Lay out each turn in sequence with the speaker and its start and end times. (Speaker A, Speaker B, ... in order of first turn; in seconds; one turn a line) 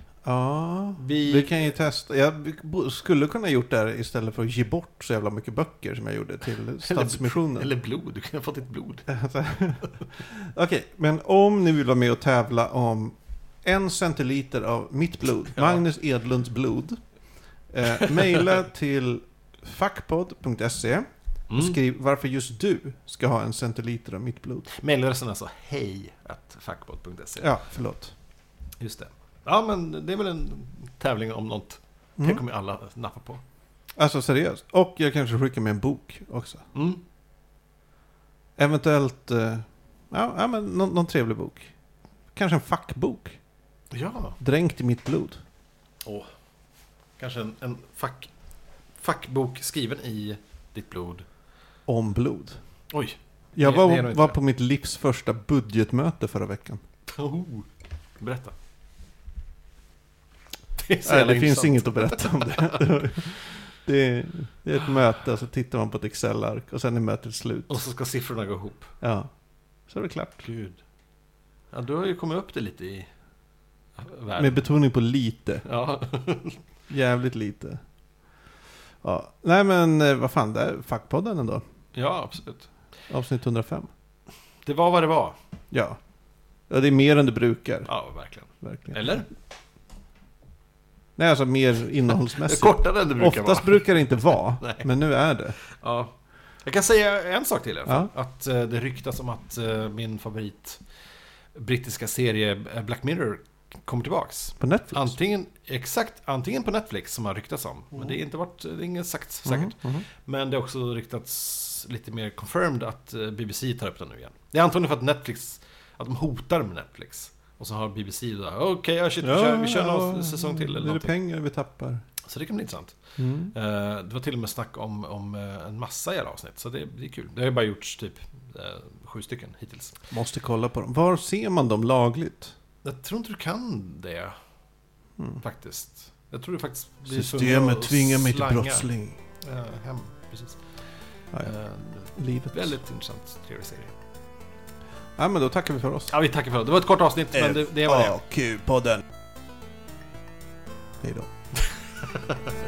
Speaker A: 0.2-7.7
Speaker B: 1.0-1.7
Speaker B: 6.8-9.1
Speaker A: 9.1-17.0
Speaker B: 15.6-15.8
Speaker A: 17.7-24.7
Speaker B: 17.9-18.6
Speaker B: 21.5-21.8
Speaker B: 24.7-27.5
Speaker A: 27.4-28.1
Speaker B: 28.8-33.4
Speaker A: 34.0-36.6
Speaker B: 36.7-37.0
Speaker A: 38.6-41.7
Speaker A: 42.3-43.4
Speaker B: 43.9-44.4
Speaker A: 44.4-45.4
Speaker B: 46.0-46.3
Speaker B: 47.2-48.3
Speaker B: 49.0-51.2
Speaker A: 51.9-52.6
Speaker B: 52.9-54.4
Speaker A: 53.5-56.8
Speaker B: 57.1-58.5
Speaker B: 60.8-62.9
Speaker A: 61.0-67.8
Speaker B: 67.7-68.9
Speaker A: 69.0-69.3
Speaker A: 69.9-70.5
Speaker B: 70.4-70.8
Speaker B: 71.7-73.1
Speaker B: 74.0-74.7
Speaker A: 74.4-75.6
Speaker B: 75.6-76.6
Speaker A: 76.9-77.8
Speaker A: 79.0-81.6
Speaker B: 81.9-82.7
Speaker A: 83.1-83.9
Speaker B: 84.6-85.4
Speaker A: 85.7-86.0
Speaker A: 86.7-87.9
Speaker B: 87.9-89.3
Speaker A: 88.6-89.2
Speaker A: 91.2-95.5
Speaker B: 92.3-94.9
Speaker B: 95.6-100.8
Speaker B: 101.5-121.1
Speaker A: 104.6-105.2
Speaker A: 109.4-110.0
Speaker A: 119.2-122.0
Speaker B: 122.2-123.0
Speaker A: 123.2-123.5
Speaker B: 123.5-129.9
Speaker A: 130.1-132.5
Speaker B: 132.8-134.3
Speaker B: 135.4-138.9
Speaker A: 137.1-139.2
Speaker B: 139.4-140.6
Speaker B: 141.4-143.9
Speaker A: 142.1-142.8
Speaker A: 145.2-146.1
Speaker B: 146.1-148.2
Speaker A: 147.3-149.0
Speaker A: 151.0-151.3
Speaker B: 151.6-152.4